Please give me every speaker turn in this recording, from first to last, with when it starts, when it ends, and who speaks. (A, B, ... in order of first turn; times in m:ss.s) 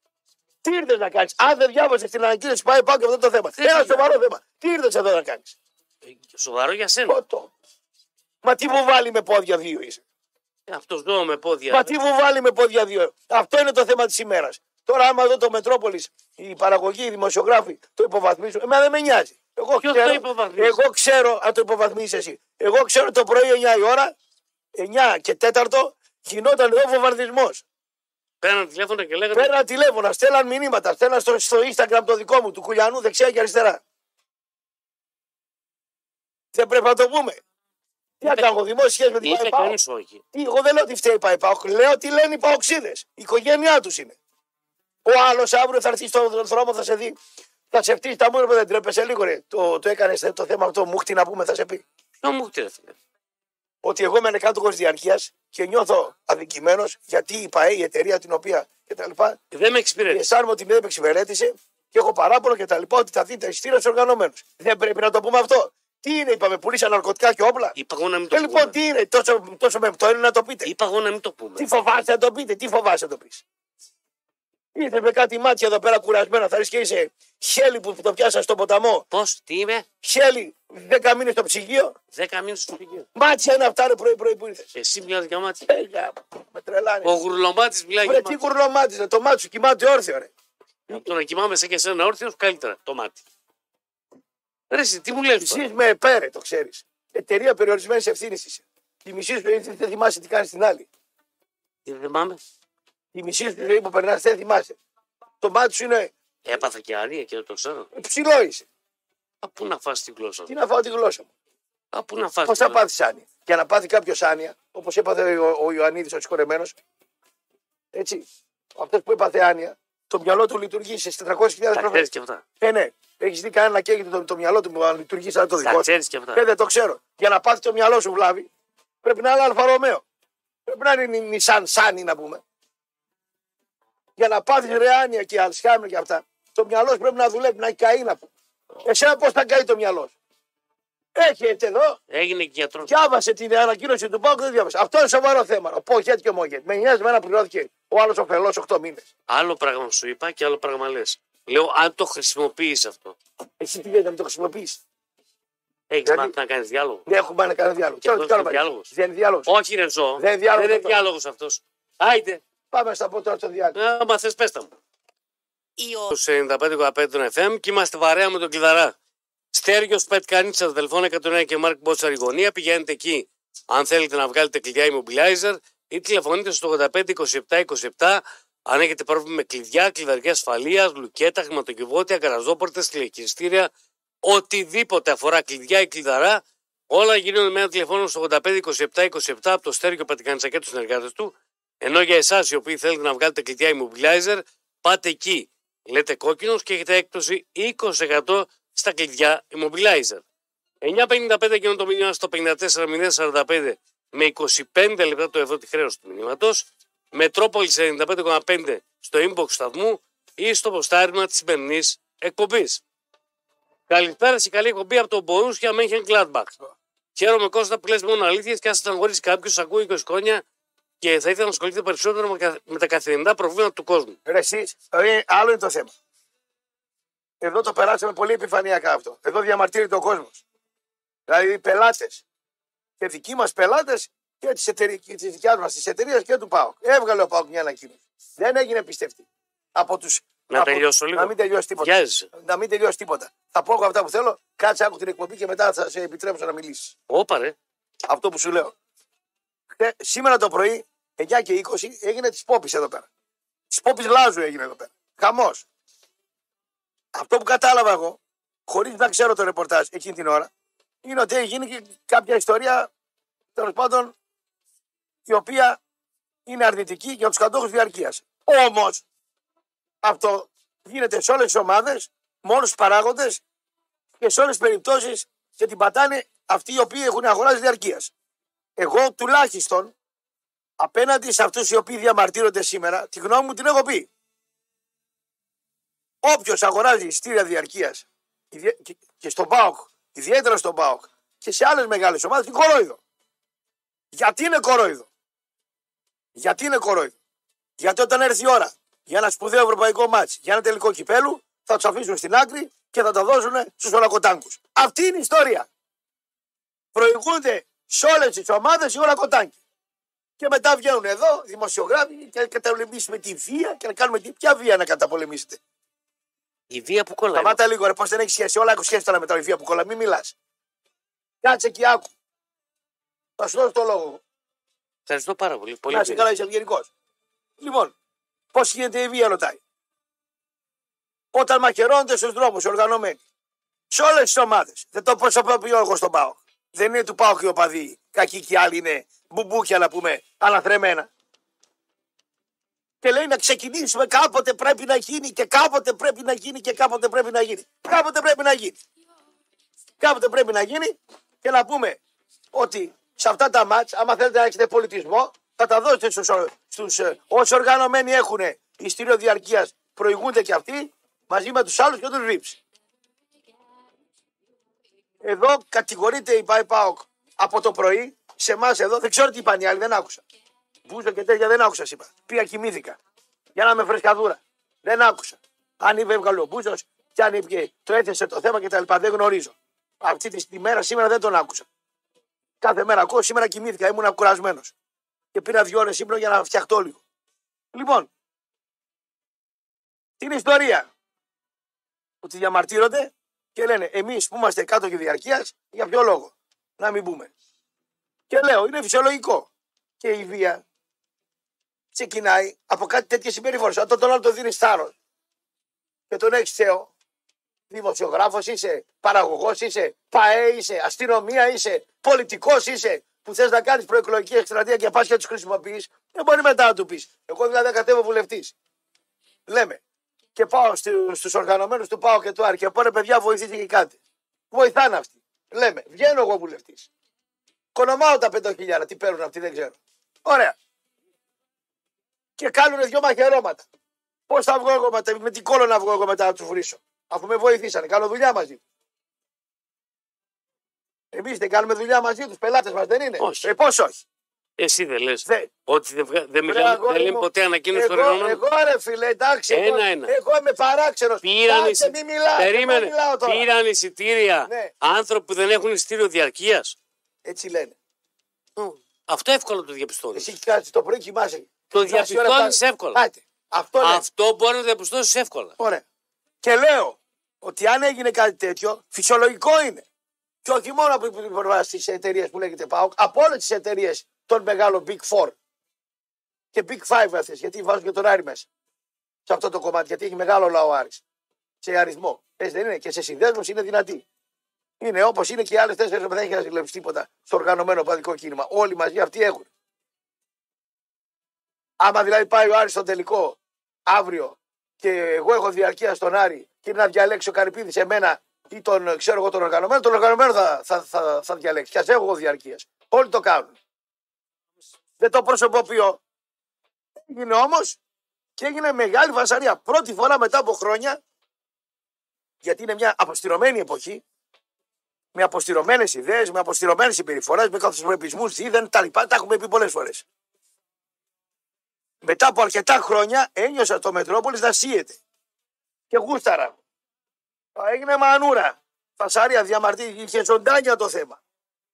0:00.6-0:05.5 A
0:03.6-0:04.1 B
0:06.0-0:07.2 B
0:07.1-0:07.5 A
0:08.4-0:10.0 A
0:10.7-0:11.9 B
0:11.7-0:24.1 A
0:19.8-0:20.9 B
0:24.7-0:27.6 A
0:28.4-0:29.5 B
0:29.3-0:33.8 A
0:36.5-0:37.4 A
0:38.2-0:39.8 A
0:39.2-0:40.2 B
0:40.3-0:44.2 A
0:45.0-0:47.2 A
0:47.7-0:51.8 A
0:52.2-0:53.0 B
0:53.8-0:59.4 A
0:59.5-1:00.3 B
1:00.0-1:07.8 A
1:07.8-1:08.7 B
1:08.3-1:10.7 A
1:10.6-1:11.7 B
1:11.6-1:13.4 A
1:14.7-1:19.0 A
1:19.1-1:19.8 B
1:20.0-1:22.0 A
1:22.1-1:23.1 B
1:23.1-1:24.7 A
1:24.7-1:25.6 B
1:25.6-1:27.1 A
1:27.0-1:28.4 B
1:28.0-1:30.3 A
1:30.9-1:33.2 B
1:34.7-1:35.6 B
1:35.4-1:40.9 A
1:41.8-1:42.4 B
1:43.1-1:44.8 A
1:45.4-1:46.1 A
1:46.4-1:47.9 B
1:47.9-1:48.6 A
1:49.4-1:50.5 B
1:50.5-1:51.3 A
1:51.9-1:52.8 B
1:52.4-1:56.7 A
1:57.9-1:58.2 A
1:58.8-2:02.1 A
2:01.7-2:02.4 B
2:02.6-2:08.5 A
2:05.6-2:06.4 B
2:09.0-2:10.0 A
2:10.6-2:12.4 A
2:14.2-2:18.2 A
2:18.8-2:20.1 A
2:21.2-2:22.0 A
2:22.1-2:22.9 B
2:22.8-2:29.1 A
2:29.3-2:33.2 B
2:33.6-2:34.8 A
2:35.9-2:37.1 B
2:36.0-2:36.3 A
2:37.0-2:39.5 A
2:38.0-2:38.9 B
2:39.4-2:42.4 B
2:40.2-2:41.0 A
2:42.7-2:43.8 A
2:43.7-2:44.7 B
2:45.8-2:48.9 B
2:49.5-3:03.7 B
3:04.2-3:20.2 B
3:20.8-3:32.8 B
3:33.9-3:36.6 B
3:37.2-3:40.4 B
3:41.0-3:44.2 B
3:44.2-3:45.9 A
3:47.4-3:50.4 A
3:51.3-3:52.2 A
3:53.0-4:06.9 A
4:00.5-4:02.3 B
4:07.1-4:07.5 B
4:08.1-4:08.7 A
4:09.7-4:13.1 A
4:13.7-4:15.6 A
4:17.1-4:20.5 A
4:21.0-4:22.9 A
4:23.5-4:24.1 A
4:25.2-4:25.8 A
4:26.4-4:29.0 A
4:30.0-4:33.4 A
4:34.2-4:38.1 A
4:38.8-4:39.9 A
4:40.8-4:44.1 A
4:46.2-4:53.0 A
4:54.1-4:55.1 A
4:56.4-4:57.1 A
4:57.8-5:05.7 A
5:06.9-5:09.6 A
5:10.4-5:15.6 A
5:16.7-5:17.6 B
5:17.3-5:20.3 A
5:21.4-5:22.1 A
5:23.4-5:24.2 A
5:25.1-5:26.3 B
5:25.9-5:26.9 A
5:27.6-5:27.9 A
5:28.5-5:29.6 A
5:31.3-5:33.2 A
5:33.9-5:41.1 A
5:43.0-5:48.8 A
5:50.0-5:52.0 A
5:52.5-6:02.6 A
6:05.2-6:10.2 A
6:10.8-6:13.0 A
6:13.5-6:21.7 A
6:22.6-6:24.7 A
6:25.3-6:27.0 A
6:27.7-6:28.1 A
6:30.2-6:30.9 A
6:32.2-6:37.3 A
6:38.3-6:39.5 A
6:40.0-6:40.6 A
6:41.9-6:44.9 A
6:46.1-6:46.9 A
6:47.7-6:58.5 A
6:59.5-6:59.8 A
7:00.4-7:04.0 A
7:04.5-7:06.9 A
7:07.7-7:10.5 A
7:12.4-7:13.6 A
7:14.3-7:18.6 A
7:21.1-7:24.0 A
7:23.2-7:23.5 B
7:24.6-7:28.4 B
7:25.2-7:25.5 A
7:26.4-7:33.5 A
7:29.5-7:30.1 B
7:31.2-7:36.8 B
7:34.5-7:34.7 A
7:37.2-7:37.7 A
7:38.6-7:40.3 B
7:40.1-7:44.0 A
7:41.7-7:43.0 B
7:43.8-7:45.5 B
7:45.6-7:45.8 A
7:46.4-7:49.8 A
7:50.4-7:55.3 A
7:56.5-7:58.5 A
7:59.2-8:01.0 A
8:01.6-8:04.0 A
8:04.8-8:09.5 A
8:11.8-8:23.6 A
8:25.0-8:26.0 A
8:27.0-8:27.8 A
8:28.4-8:31.0 A
8:32.4-8:34.0 A
8:35.1-8:40.0 A
8:42.0-8:45.0 A
8:45.9-8:46.6 A
8:47.6-8:51.2 A